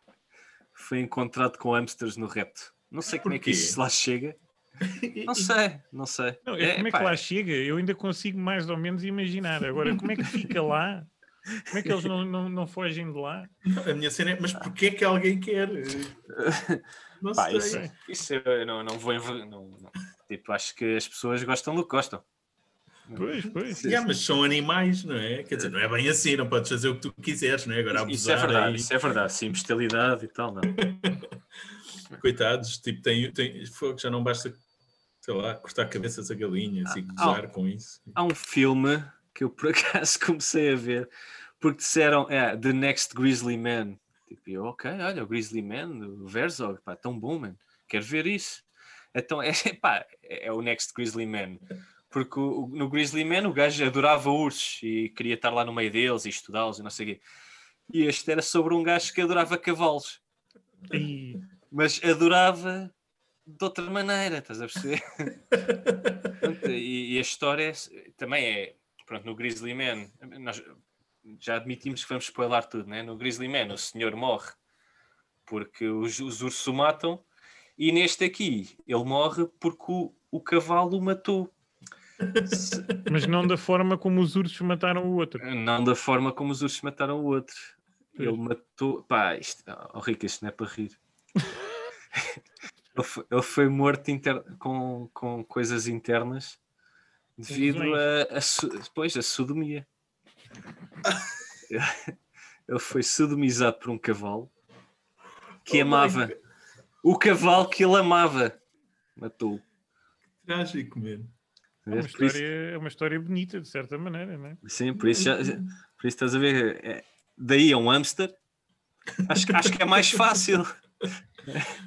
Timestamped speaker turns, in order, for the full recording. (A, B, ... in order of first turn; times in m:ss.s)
0:00.8-0:04.4 A
0:03.2-0:03.8 B
0:04.8-0:05.5 B
0:05.2-0:07.2 A
0:06.4-0:11.1 C
0:11.7-0:13.5 C
0:13.7-0:16.2 B
0:16.3-0:16.8 A
0:17.2-0:17.9 B
0:17.4-0:22.2 A
0:23.1-0:24.0 A
0:23.2-0:23.9 C
0:23.8-0:28.9 B
0:27.9-0:30.8 A
0:30.7-0:31.3 B
0:32.2-0:34.6 B
0:35.2-0:38.1 B
0:36.9-0:37.4 A
0:38.1-0:57.2 A
0:57.9-1:00.2 A
1:00.9-1:01.4 C
1:01.7-1:02.9 A
1:03.4-1:05.3 A
1:05.7-1:06.3 B
1:06.4-1:10.7 A
1:11.3-1:14.6 A
1:15.5-1:17.2 A
1:17.8-1:21.5 A
1:22.2-1:23.1 B
1:22.5-1:22.9 A
1:23.1-1:25.4 C
1:25.4-1:31.0 A
1:33.0-1:36.6 A
1:37.4-1:39.9 A
1:37.5-1:38.0 C
1:41.7-1:42.1 A
1:42.7-1:44.5 A
1:45.6-1:46.4 B
1:45.7-1:46.3 A
1:47.0-1:48.6 A
1:49.2-1:49.6 A
1:50.4-1:51.3 B
1:51.9-1:52.4 A
1:51.9-1:54.6 C
1:54.6-1:58.4 A
1:55.0-1:55.4 B
1:59.3-2:00.7 A
1:59.3-2:00.2 B
2:01.5-2:01.8 A